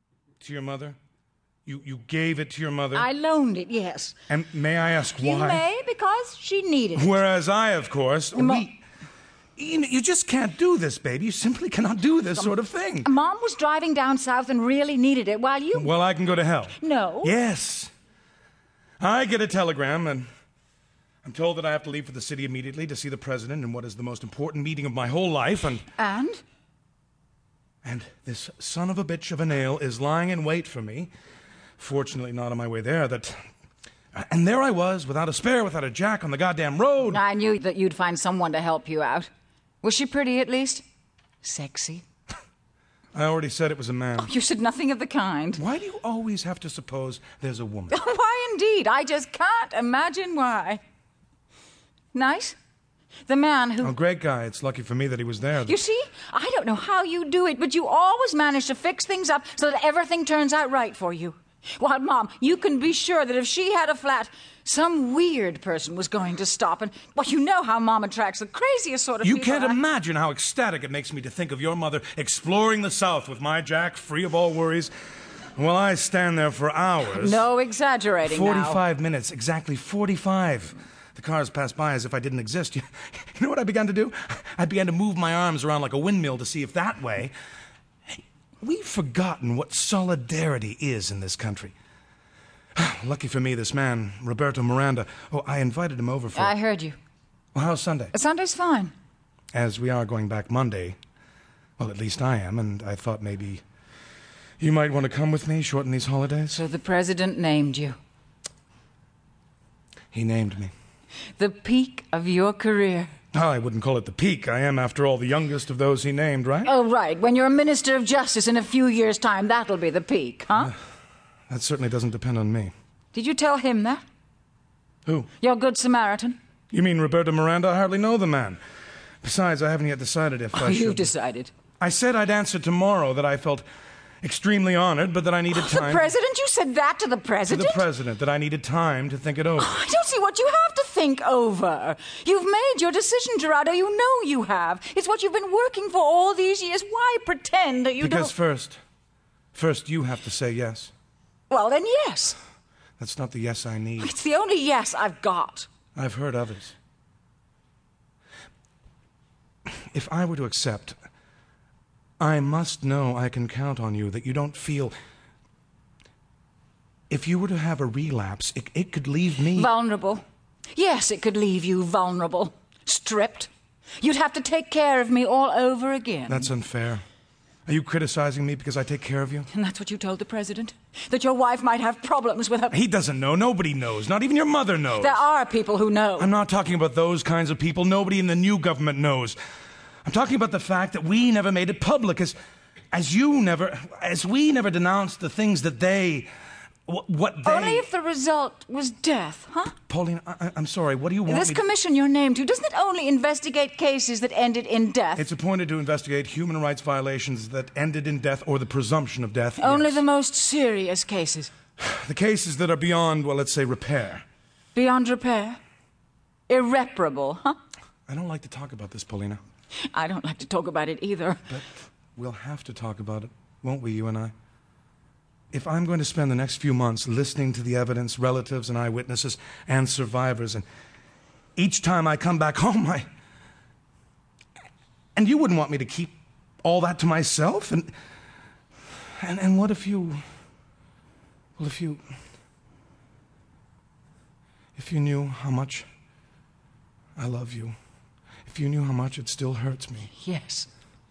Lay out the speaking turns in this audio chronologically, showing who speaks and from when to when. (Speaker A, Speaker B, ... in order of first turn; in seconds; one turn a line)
Speaker A: 0.4-1.0
Speaker A: 1.7-3.1
Speaker B: 2.9-4.2
Speaker A: 4.3-5.6
Speaker B: 5.2-7.2
Speaker A: 7.0-8.8
Speaker B: 8.3-8.7
Speaker A: 9.6-13.1
Speaker B: 13.0-15.9
Speaker A: 15.7-17.9
Speaker B: 16.8-17.3
Speaker A: 19.0-20.3
Speaker A: 21.2-25.9
Speaker B: 26.0-26.4
Speaker A: 27.8-31.1
Speaker A: 31.8-33.4
Speaker A: 34.1-37.2
Speaker B: 37.1-39.3
Speaker B: 39.8-40.8
Speaker B: 41.4-42.0
Speaker A: 43.1-44.3
Speaker B: 44.2-45.6
Speaker A: 45.6-48.0
Speaker B: 47.9-50.8
Speaker B: 52.1-52.6
Speaker B: 53.3-53.9
Speaker A: 53.8-55.8
Speaker B: 55.6-69.8
Speaker A: 69.2-74.9
Speaker A: 75.6-77.5
Speaker B: 77.0-78.8
Speaker A: 78.2-87.3
Speaker A: 88.6-91.7
Speaker A: 92.8-96.5
Speaker B: 96.3-97.0
Speaker A: 97.5-98.1
Speaker B: 98.1-98.9
Speaker A: 99.5-101.0
Speaker A: 101.8-103.6
Speaker A: 104.6-106.6
Speaker B: 106.5-108.0
Speaker A: 110.1-110.7
Speaker B: 111.4-113.1
Speaker A: 113.3-116.7
Speaker B: 116.6-120.7
Speaker A: 121.5-122.7
Speaker B: 123.1-124.0
Speaker B: 125.4-126.4
Speaker A: 126.7-128.6
Speaker A: 129.2-131.1
Speaker B: 130.5-131.5
Speaker A: 131.8-133.7
Speaker A: 134.2-136.1
Speaker B: 135.5-137.9
Speaker A: 137.5-139.8
Speaker B: 139.6-148.3
Speaker A: 148.0-148.8
Speaker A: 149.5-150.9
Speaker B: 151.5-152.4
Speaker A: 153.0-154.1
Speaker B: 154.0-155.7
Speaker A: 155.9-156.8
Speaker A: 159.7-161.0
Speaker A: 162.2-164.9
Speaker A: 167.1-169.7
Speaker B: 169.5-170.2
Speaker B: 170.7-176.5
Speaker A: 176.3-177.0
Speaker A: 177.7-179.5
Speaker B: 179.5-182.8
Speaker A: 182.7-185.2
Speaker B: 185.0-186.3
Speaker A: 186.2-189.4
Speaker A: 190.1-192.4
Speaker A: 192.9-196.3
Speaker A: 196.9-197.9
Speaker B: 197.4-199.7
Speaker A: 199.9-201.6
Speaker B: 201.3-205.3
Speaker A: 205.2-210.0
Speaker B: 209.6-211.5
Speaker A: 211.8-214.2
Speaker B: 214.8-215.6
Speaker B: 216.5-217.6
Speaker A: 218.1-219.4
Speaker B: 219.9-221.5
Speaker A: 221.5-224.3
Speaker A: 225.5-230.7
Speaker A: 231.6-233.1
Speaker A: 235.2-237.9
Speaker A: 239.2-240.2
Speaker A: 241.6-242.0
Speaker A: 244.8-245.8
Speaker A: 247.2-247.8
Speaker A: 248.4-250.1
Speaker B: 250.1-250.7